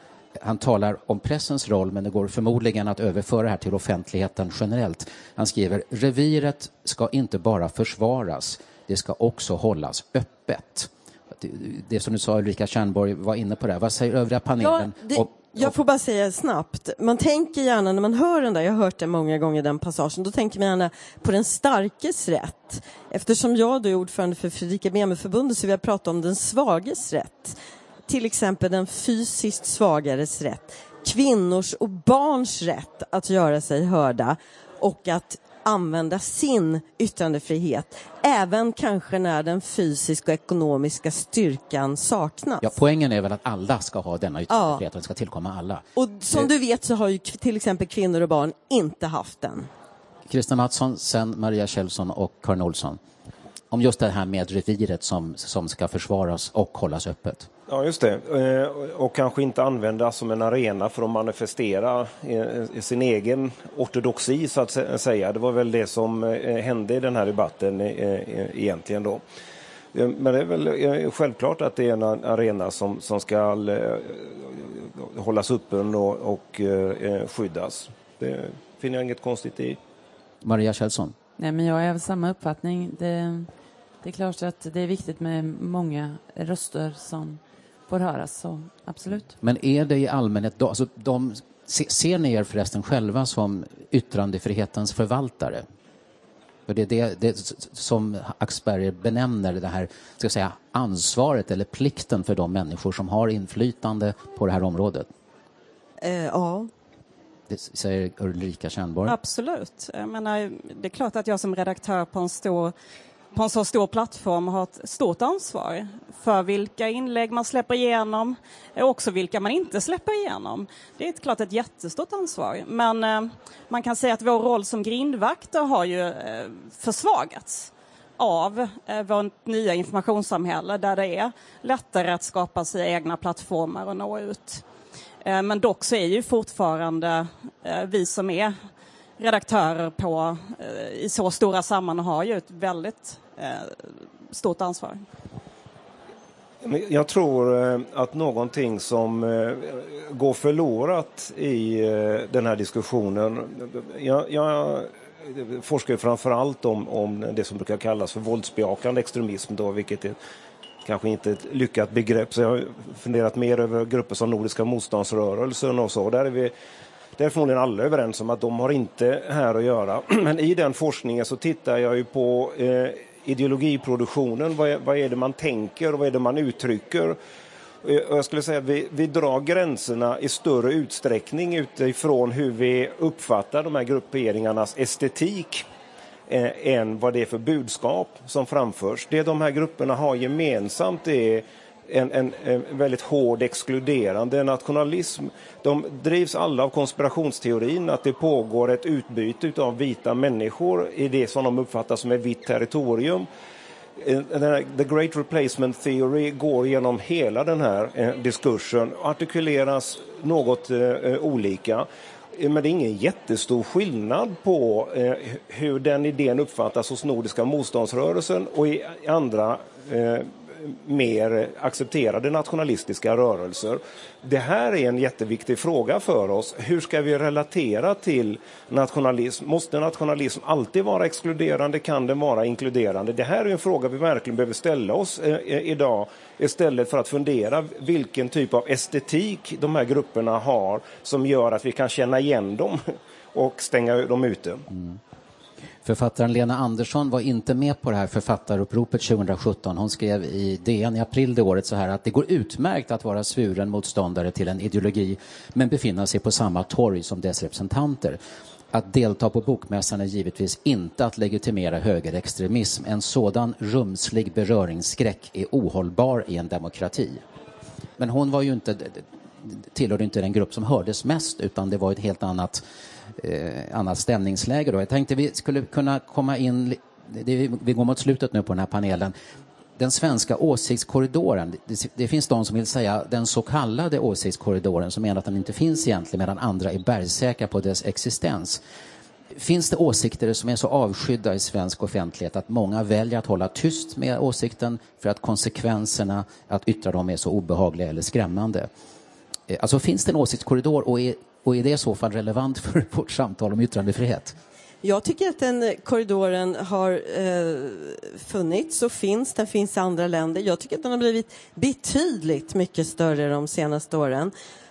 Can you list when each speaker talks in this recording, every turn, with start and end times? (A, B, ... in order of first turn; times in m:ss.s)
0:00.4-0:15.7 A
0:14.6-0:27.6 B
0:28.1-0:42.7 B
0:42.6-0:46.5 A
0:44.5-0:44.8 B
0:46.0-0:49.7 B
0:50.3-0:53.0 A
0:53.7-0:57.5 A
0:57.7-1:09.2 C
1:09.9-1:19.8 C
1:20.4-1:21.2 A
1:21.4-1:23.5 D
1:24.0-1:29.3 D
1:29.4-1:35.6 A
1:36.7-1:45.1 A
1:46.0-1:46.7 B
1:47.5-1:49.2 A
1:49.1-1:52.7 E
1:53.3-2:14.6 E
2:15.2-2:18.5 E
2:19.2-2:23.8 E
2:24.3-2:25.0 E
2:26.6-2:40.2 C
2:40.8-2:46.5 C
2:47.2-2:57.2 C
2:57.8-3:05.6 C
3:06.3-3:23.3 C
3:24.0-4:02.8 C
4:03.3-4:04.6 C
4:04.7-4:05.0 A
4:05.8-4:18.2 A
4:18.7-4:27.2 A
4:28.0-4:32.6 A
4:33.2-4:39.1 A
4:39.8-4:48.6 A
4:49.4-4:58.7 A
4:59.5-5:04.4 A
5:04.8-5:14.3 B